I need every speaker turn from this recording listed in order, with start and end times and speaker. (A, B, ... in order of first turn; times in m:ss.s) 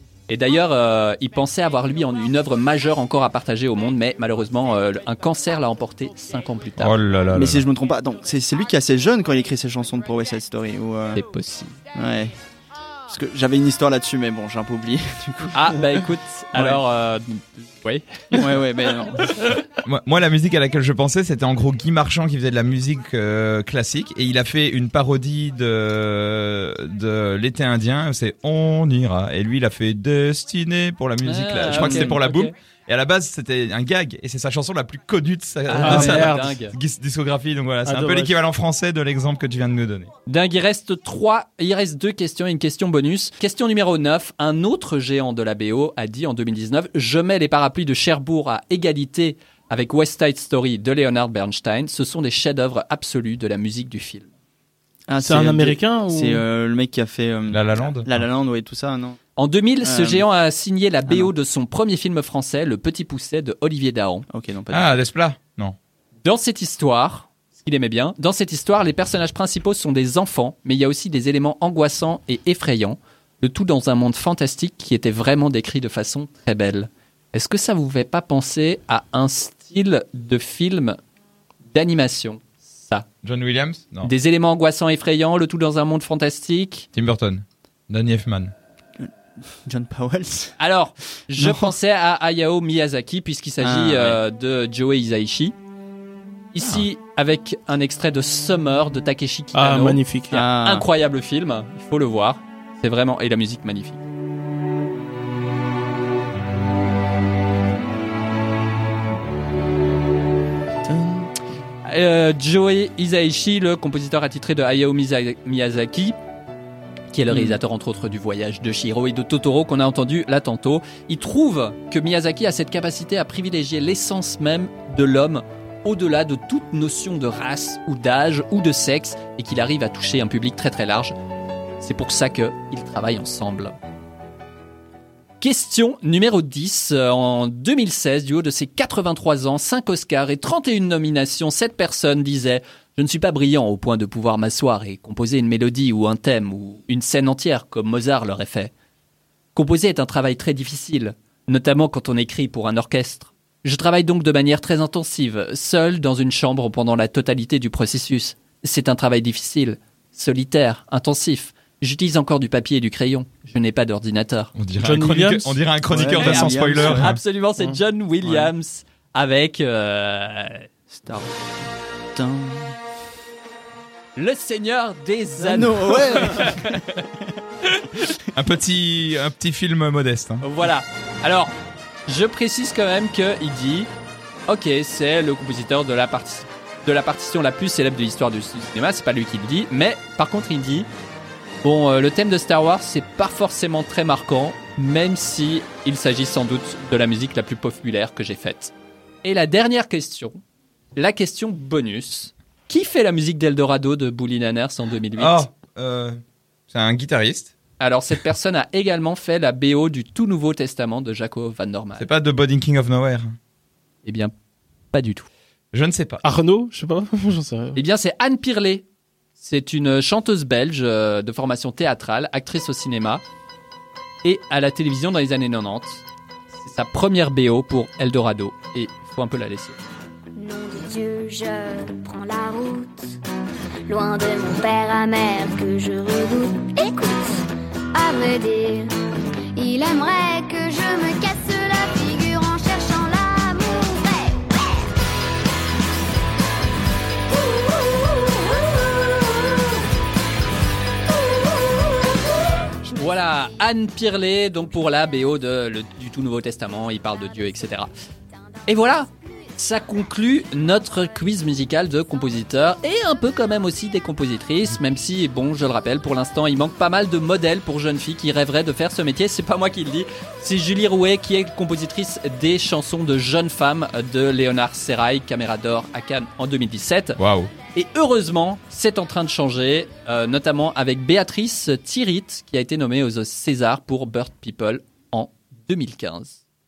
0:00.3-0:06.9 A
0:06.8-0:07.6 B
0:07.3-0:11.2 C
0:11.1-0:11.8 A
0:11.9-0:12.3 C
0:13.1-0:15.8 C
0:15.5-0:18.0 A
0:16.5-0:16.8 C
0:18.3-0:19.4 C
0:19.8-0:40.1 B
0:31.2-0:32.5 A
0:31.7-0:32.2 C
0:35.6-0:36.7 A
0:35.8-0:36.5 D
0:37.8-0:38.4 D
0:40.2-0:54.3 A
0:55.1-0:59.2 C
0:55.2-0:56.4 D
0:57.5-0:58.2 B
0:59.4-1:04.2 A
0:59.8-1:00.2 C
1:04.3-1:04.9 C
1:04.7-1:05.8 B
1:06.2-1:21.0 A
1:21.7-1:23.0 A
1:23.2-1:24.1 B
1:24.0-1:26.8 A
1:26.9-1:28.5 B
1:29.6-1:30.6 C
1:30.6-1:35.5 A
1:31.4-1:31.8 C
1:33.6-1:34.2 C
1:36.5-1:44.0 A
1:36.6-1:36.8 B
1:39.5-1:40.4 D
1:40.3-1:40.8 C
1:50.9-1:51.3 D
1:51.8-1:56.2 A
1:57.1-2:11.1 A
1:57.3-1:57.6 C
2:11.8-2:13.7 A
2:15.4-2:28.7 A
2:29.5-2:44.5 A
2:44.5-2:47.2 B
2:44.8-2:45.6 D
2:45.9-2:47.2 C
2:46.1-2:50.6 A
2:48.2-2:48.5 C
2:50.9-2:51.3 C
2:52.1-2:52.7 C
2:54.2-2:56.9 A
2:55.3-2:57.3 C
2:58.3-3:00.4 B
3:00.4-3:01.5 A
3:02.1-3:03.9 A
3:04.5-3:10.9 A
3:11.6-3:20.4 A
3:21.0-3:25.4 A
3:25.2-3:27.5 B
3:27.8-3:32.0 A
3:32.0-3:33.4 B
3:34.0-3:34.3 A
3:34.9-3:35.3 A
3:35.7-3:36.2 B
3:36.2-3:37.8 D
3:37.7-3:38.8 A
3:39.4-3:43.2 A
3:44.2-3:46.0 A
3:46.6-3:49.8 A
3:50.4-3:53.2 E
3:53.8-3:59.0 E
3:59.5-4:04.8 E
4:07.8-4:09.7 E
4:12.9-4:17.9 A
4:18.6-4:37.2 A
4:37.2-4:37.5 B
4:37.7-4:46.4 A